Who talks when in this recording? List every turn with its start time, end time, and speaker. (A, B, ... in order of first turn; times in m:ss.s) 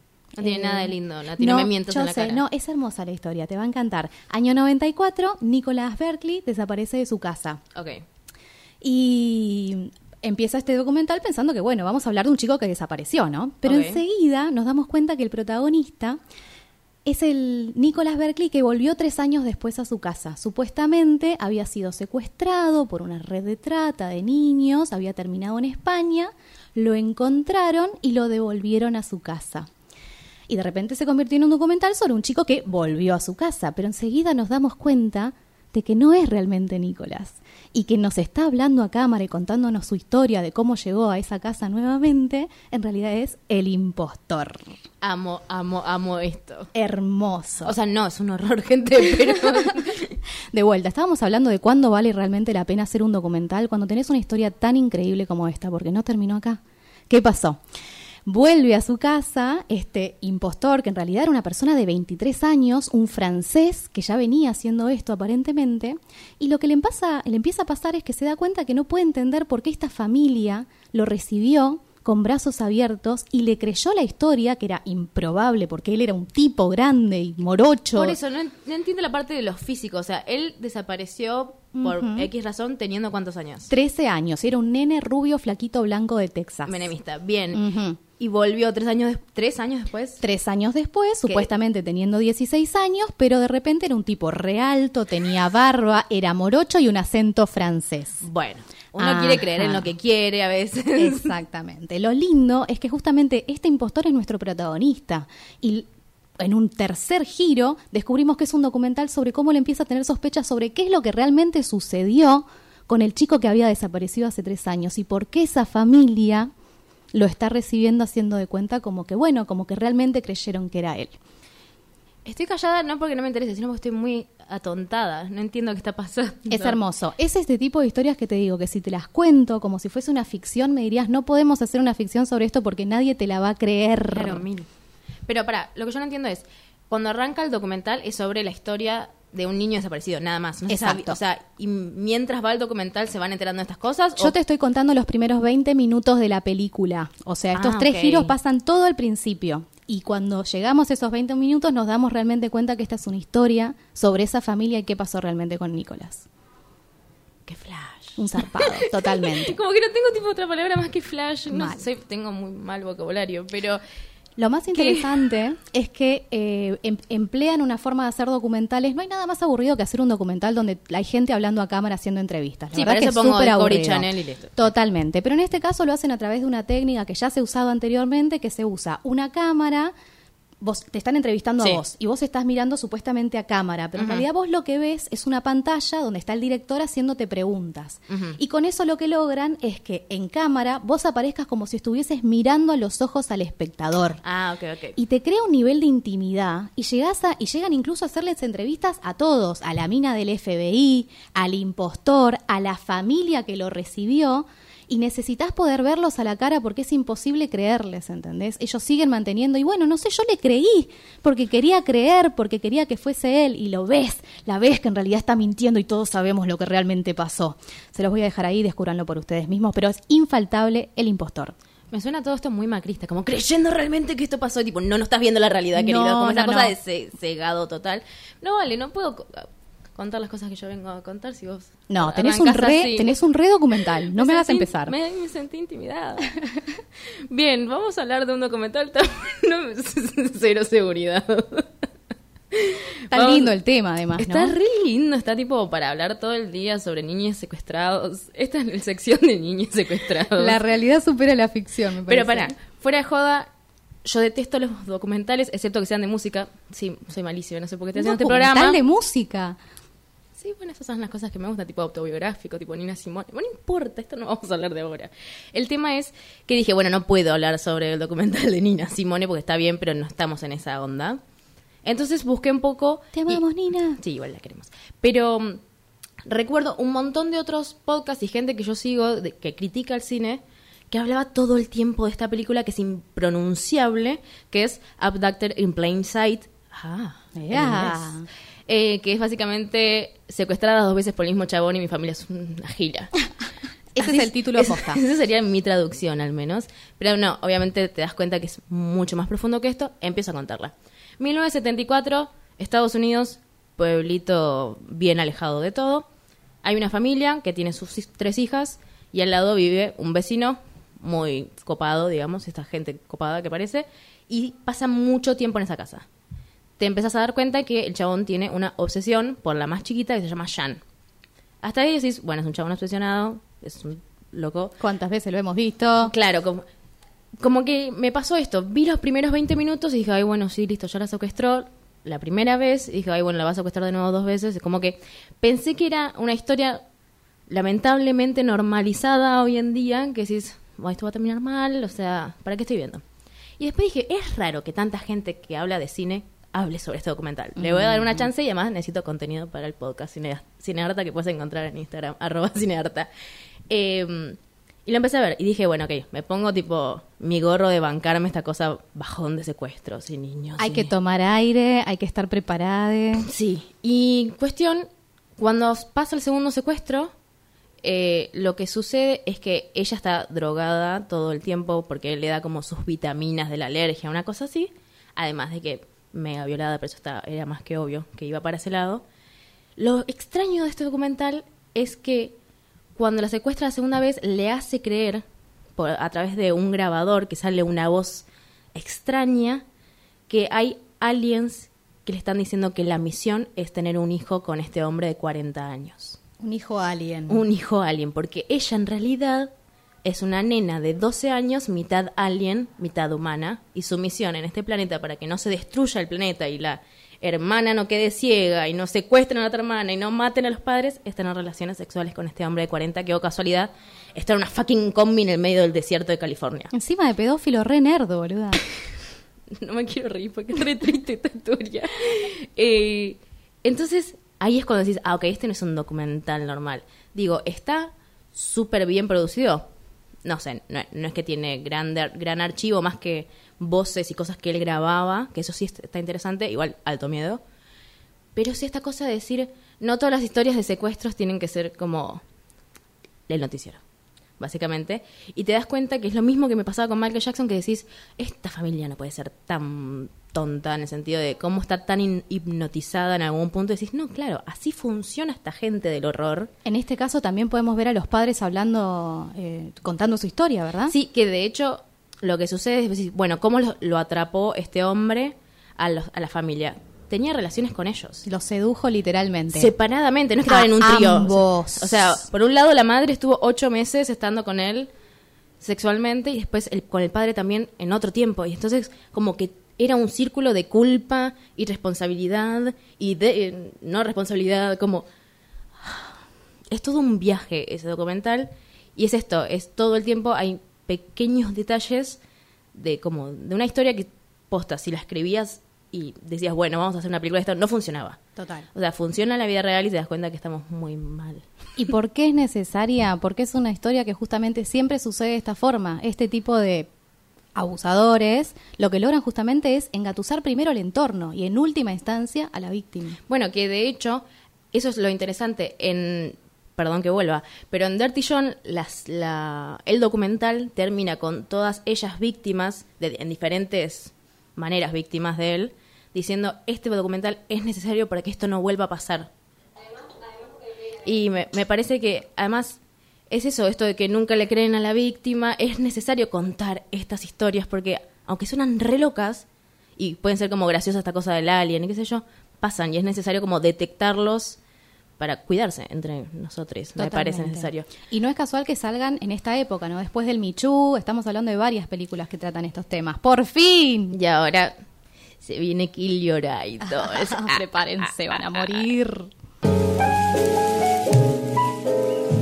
0:00.4-0:07.6 A
0:00.4-0:02.4 B
0:07.7-0:08.0 B
0:08.8-0:16.2 A
0:13.6-0:14.0 B
0:17.0-0:29.7 A
0:30.5-0:44.6 A
0:45.0-0:46.7 B
0:46.7-0:47.7 A
0:47.6-0:50.1 B
0:50.5-0:57.6 A
0:58.2-1:18.2 A
1:17.9-1:23.7 B
1:21.7-1:22.3 A
1:23.7-1:26.9 A
1:26.6-1:27.6 B
1:27.5-1:28.0 A
1:28.2-1:30.2 B
1:30.2-1:38.2 A
1:38.2-1:41.3 B
1:39.0-1:39.9 A
1:41.0-1:45.9 A
1:46.4-1:56.5 A
1:57.1-2:01.2 A
2:02.2-2:06.8 B
2:06.5-2:14.4 A
2:14.1-2:14.7 B
2:15.3-2:24.3 B
2:20.7-2:21.2 A
2:24.2-2:36.3 A
2:27.5-2:28.3 B
2:37.5-2:43.8 B
2:38.2-2:39.6 A
2:41.5-2:41.8 A
2:44.4-2:59.9 A
2:44.7-2:45.1 B
2:52.7-2:54.7 B
3:00.6-3:14.2 A
3:04.0-3:04.2 B
3:08.1-3:08.4 B
3:14.2-3:15.0 B
3:15.0-3:41.5 A
3:41.9-3:53.1 B
3:45.7-3:46.7 A
3:51.9-3:54.9 A
3:54.0-3:56.3 B
3:57.3-4:01.7 B
4:02.5-4:03.5 B
4:03.1-4:04.6 A
4:04.2-4:10.6 B
4:10.4-4:12.6 A
4:12.1-4:13.5 B
4:14.0-4:18.8 B
4:18.0-4:19.6 A
4:20.4-4:31.2 B
4:31.8-4:33.4 B
4:33.1-4:34.0 A
4:33.9-4:35.6 B
4:36.2-4:48.1 B
4:47.4-4:48.2 A
4:48.7-4:53.1 B
4:53.9-4:55.0 A
4:54.0-5:06.1 B
5:06.6-5:16.0 B
5:16.8-5:20.8 B
5:21.6-5:24.7 B
5:24.8-5:26.1 A
5:26.0-5:26.6 B
5:27.4-5:36.8 B
5:37.5-5:43.0 B
5:43.6-5:53.1 B
5:47.6-5:48.2 A
5:53.7-6:00.9 B
6:00.6-6:03.2 A
6:03.2-6:07.1 B
6:07.8-6:19.0 B
6:19.8-6:22.3 B
6:23.0-6:25.2 B
6:25.8-6:29.6 B
6:30.3-6:36.2 B
6:36.4-6:37.4 A
6:37.3-6:39.5 B
6:40.0-6:56.7 B
6:56.7-6:58.6 A
6:59.5-7:09.7 B
7:10.2-7:17.4 B
7:18.3-7:22.2 B
7:23.3-7:23.8 B
7:24.4-7:36.5 B
7:36.6-7:40.9 A
7:40.9-7:48.2 B
7:48.2-7:49.7 A
7:49.5-7:54.9 B
7:50.4-7:52.2 A
7:55.6-8:05.0 B
8:05.8-8:06.2 B
8:06.7-8:12.2 B
8:12.7-8:18.2 B
8:18.4-8:18.7 A
8:18.7-8:21.4 B
8:21.8-8:26.9 A
8:27.6-8:33.2 A
8:33.3-8:49.3 B
8:51.0-8:59.4 B
9:00.0-9:04.6 B
9:05.2-9:07.9 B
9:07.0-9:14.2 A
9:14.1-9:14.7 B
9:15.4-9:18.8 B
9:17.0-9:19.3 A